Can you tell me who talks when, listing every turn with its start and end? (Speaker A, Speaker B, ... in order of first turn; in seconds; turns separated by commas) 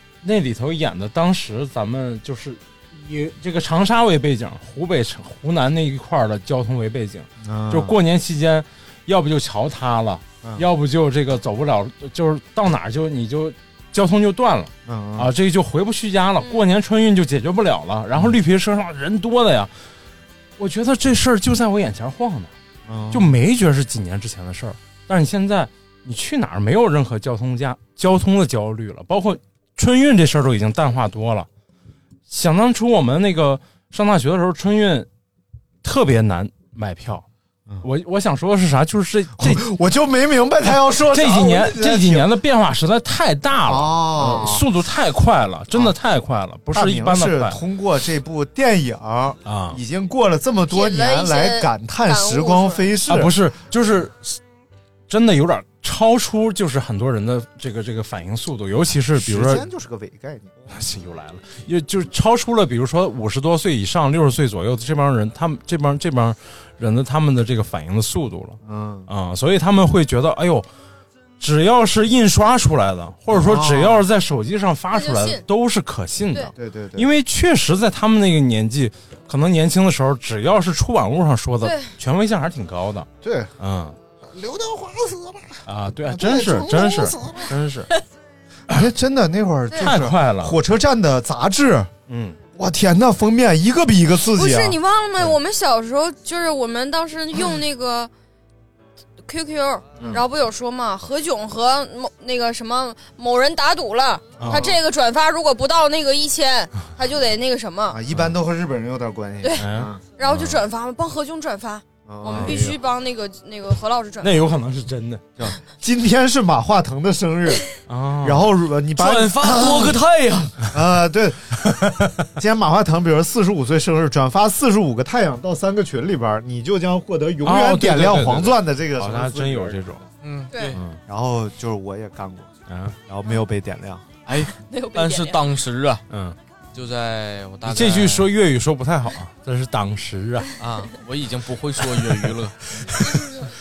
Speaker A: 0.2-19.7, Speaker B: 7.4-8.0, Speaker B: 14.8-15.3, Speaker A: 20.6-22.5, Speaker B: 22.9-23.4, Speaker A: 23.1-31.5, Speaker A: 32.3-35.1, Speaker A: 35.8-37.2, Speaker A: 37.8-39.6, Speaker B: 39.4-42.3, Speaker A: 41.1-47.6, Speaker B: 43.6-44.7, Speaker B: 46.7-53.3, Speaker A: 49.4-49.8, Speaker C: 50.7-52.9, Speaker A: 53.1-54.4, Speaker A: 55.1-59.6, Speaker B: 59.1-60.8, Speaker A: 60.7-70.7, Speaker B: 68.6-69.1, Speaker A: 71.4-83.1, Speaker B: 73.3-74.0, Speaker C: 74.9-75.4, Speaker B: 76.5-77.1, Speaker C: 81.6-81.9, Speaker B: 83.2-83.5, Speaker A: 83.6-84.0, Speaker B: 84.3-87.5, Speaker A: 85.7-87.9, Speaker B: 88.7-91.9, Speaker A: 89.8-90.5, Speaker A: 92.1-92.4, Speaker B: 92.5-94.8, Speaker C: 94.3-98.1, Speaker C: 99.2-108.0, Speaker A: 104.4-104.8, Speaker B: 104.4-104.7, Speaker B: 107.9-110.0, Speaker A: 109.6-110.6, Speaker C: 110.2-114.4, Speaker B: 112.0-112.6, Speaker A: 112.3-112.8, Speaker A: 114.2-115.2, Speaker B: 115.4-117.7, Speaker A: 117.9-118.5, Speaker B: 118.2-120.0, Speaker D: 118.9-120.6, Speaker B: 120.7-121.8, Speaker A: 121.7-122.1, Speaker B: 122.3-130.0, Speaker A: 127.4-130.0, Speaker D: 130.2-130.8, Speaker C: 130.5-130.8, Speaker A: 130.7-131.0, Speaker B: 131.1-132.5, Speaker A: 132.7-132.9, Speaker B: 133.1-134.1, Speaker D: 134.2-136.0, Speaker C: 134.7-135.4, Speaker A: 136.1-136.4, Speaker D: 136.7-138.3, Speaker A: 137.6-140.5, Speaker D: 140.6-142.6, Speaker A: 142.8-143.1, Speaker C: 143.1-143.4